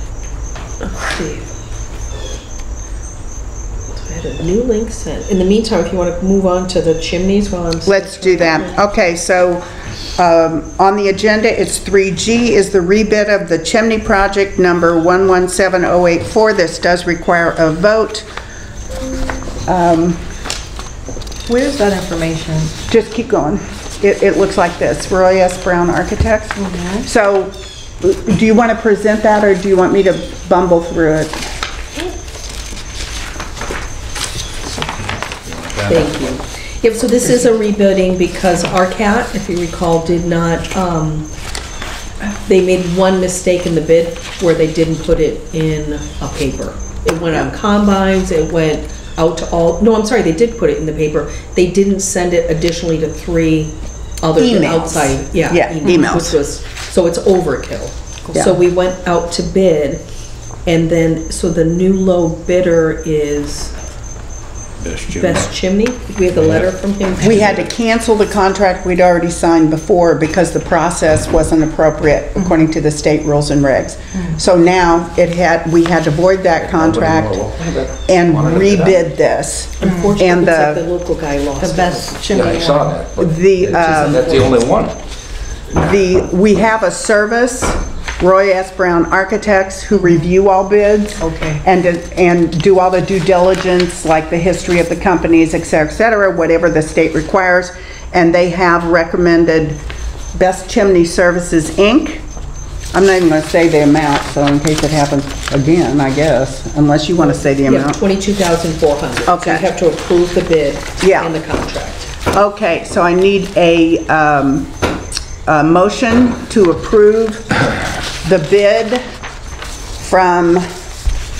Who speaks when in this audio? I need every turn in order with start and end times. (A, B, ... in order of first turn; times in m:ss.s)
0:00.8-0:01.5 A
0:03.9-0:08.8 A
0:07.8-0:09.6 B
0:10.2-0:18.2 B
0:19.6-0:20.2 B
0:21.5-0:22.7 C
0:22.9-0:31.4 B
0:26.6-0:27.0 C
0:35.4-0:36.3 D
0:35.9-0:41.3 A
0:42.3-1:00.0 A
0:54.3-0:56.4 B
0:55.8-0:56.1 C
1:00.6-1:03.7 A
1:04.8-1:05.5 D
1:05.1-1:07.6 A
1:06.3-1:06.7 D
1:07.2-1:07.5 D
1:07.2-1:17.4 B
1:16.6-1:19.0 D
1:18.1-1:20.8 B
1:19.8-1:22.2 A
1:19.8-1:20.1 C
1:21.6-1:23.0 C
1:22.3-1:24.9 D
1:23.2-1:24.3 B
1:24.0-1:24.5 A
1:25.7-1:39.8 B
1:31.2-1:31.6 C
1:40.3-1:42.2 B
1:42.9-1:48.0 B
1:47.6-1:52.1 A
1:49.2-1:49.7 B
1:51.0-1:51.3 B
1:52.3-1:54.8 B
1:55.4-1:57.6 B
1:58.2-1:59.0 B
2:00.0-2:00.7 B